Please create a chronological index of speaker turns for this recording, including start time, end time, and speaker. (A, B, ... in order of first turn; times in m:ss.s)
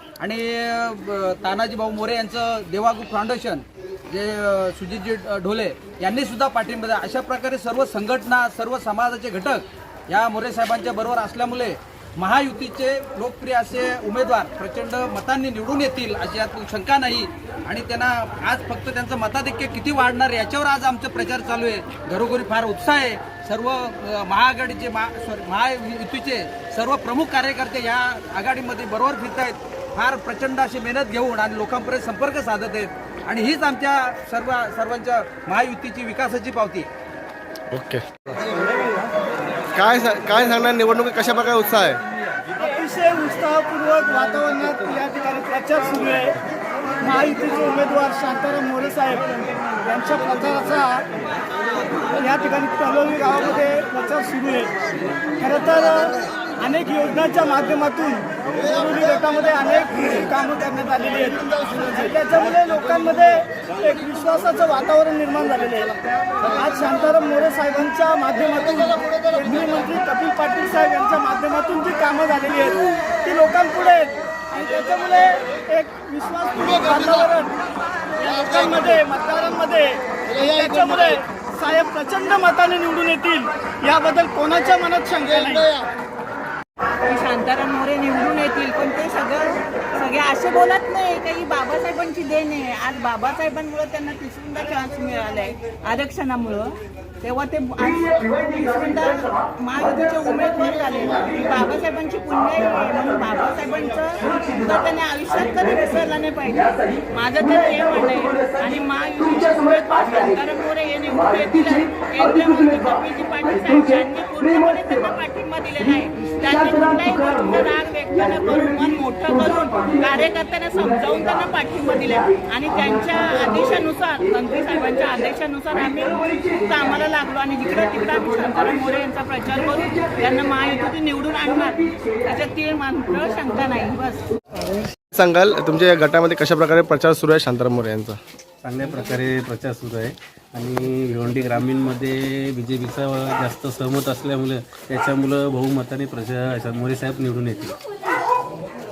0:00.2-0:36.9 A
0:37.7-0:38.0 B
0:39.7-0:42.0 B
0:42.6-0:46.3 C
0:47.0-0:49.3 C
0:49.8-0:51.0 C
0:52.1-0:54.7 C
0:55.4-1:05.9 C
1:06.4-1:17.5 C
1:18.2-1:25.7 C
1:27.0-2:14.2 D
2:15.1-2:18.2 B
2:18.6-2:27.8 E